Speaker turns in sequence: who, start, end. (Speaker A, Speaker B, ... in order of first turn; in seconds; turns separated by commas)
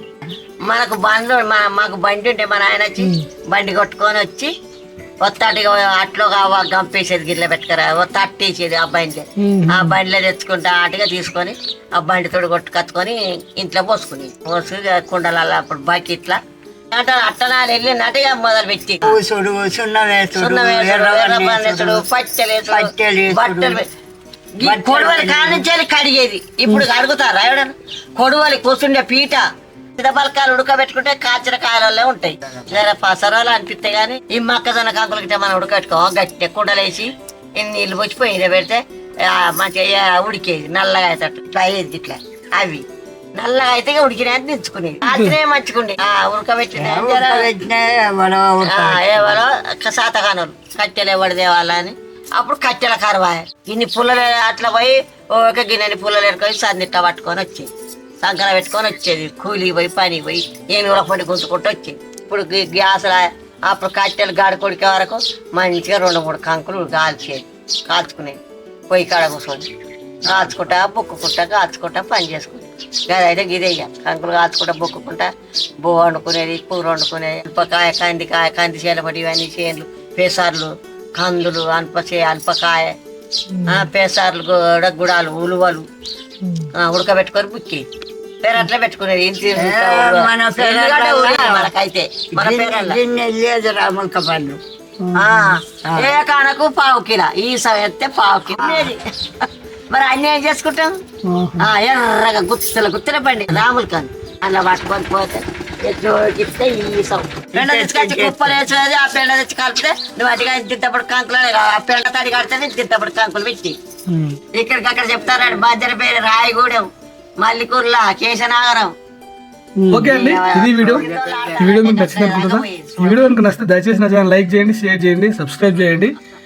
Speaker A: 0.6-4.5, Speaker A: 5.2-16.4, Speaker B: 9.4-9.9, Speaker A: 16.9-19.2, Speaker C: 19.0-22.1, Speaker A: 20.4-23.8, Speaker C: 22.7-23.8, Speaker A: 24.6-29.4, Speaker C: 24.6-25.6, Speaker A: 30.0-42.8, Speaker A: 43.4-47.5, Speaker B: 45.0-45.3, Speaker C: 46.8-49.4, Speaker A: 48.6-57.7, Speaker A: 58.2-68.4, Speaker A: 68.9-69.6, Speaker A: 70.2-75.3, Speaker A: 75.8-82.9, Speaker B: 83.5-83.8, Speaker A: 83.7-85.8, Speaker B: 86.4-86.7, Speaker A: 86.8-87.8, Speaker A: 88.4-93.0, Speaker C: 89.5-91.7, Speaker C: 92.3-94.6, Speaker B: 95.0-95.6, Speaker A: 95.2-100.9, Speaker C: 95.8-96.1, Speaker C: 98.6-98.9, Speaker B: 101.3-101.7, Speaker A: 101.6-113.8, Speaker C: 107.5-108.6, Speaker B: 114.1-114.4, Speaker A: 114.5-116.9, Speaker A: 117.4-118.9, Speaker B: 119.8-121.0, Speaker A: 119.9-123.3, Speaker B: 121.6-126.2